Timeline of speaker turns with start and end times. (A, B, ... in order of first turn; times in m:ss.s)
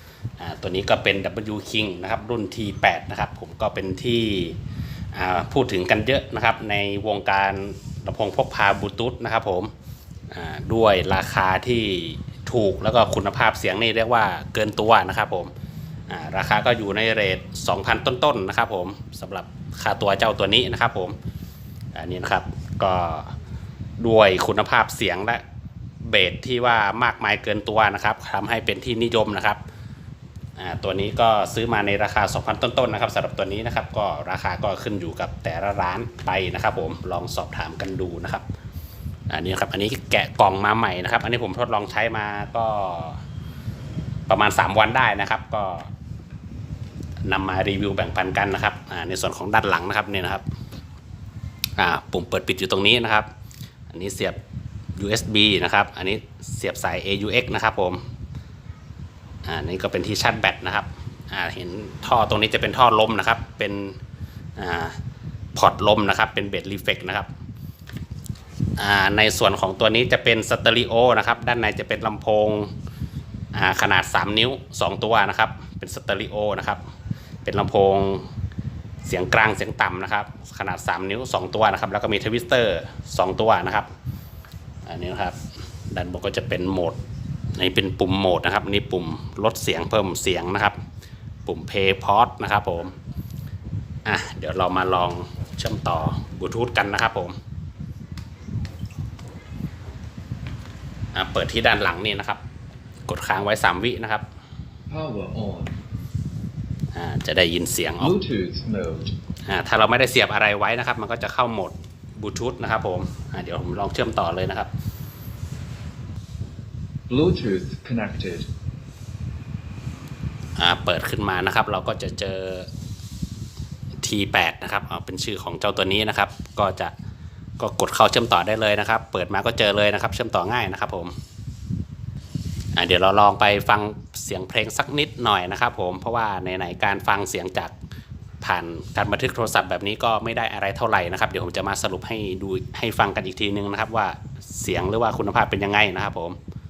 0:00.4-0:04.6 A
0:05.1-0:09.7 A
0:10.3-0:15.5 A
0:16.1-0:21.2 A
0:21.9-0:23.3 A
0:24.0-0:25.4 A
0:26.0-0:29.6 A
0:30.6-0:38.4 A
0:39.3-0:43.2 A
0:44.3-0:45.9 A
0:47.2-0:50.4 A
0:51.8-0:53.3 A
0:53.9-0:54.4 A
0:55.0-0:58.0 A
0:59.4-1:04.0 A
1:04.6-1:05.0 A
1:05.5-1:07.3 A
1:08.8-1:12.7 A
1:13.5-1:16.8 A
1:17.4-1:18.3 A
1:19.0-1:23.9 A
1:24.8-1:25.4 A
1:25.9-1:27.0 A
1:27.6-1:30.8 A
1:31.4-1:33.0 A
1:34.0-1:37.4 A
1:41.1-1:42.4 A
1:43.0-1:44.2 A
1:44.9-1:45.8 B
1:46.9-1:48.1 A
1:48.0-1:49.1 B
1:49.5-1:54.7 A
1:57.1-1:58.5 B
2:00.6-2:02.7 A
2:04.0-2:06.9 A
2:07.6-2:11.1 A
2:12.8-2:17.7 A
2:18.4-2:26.4 A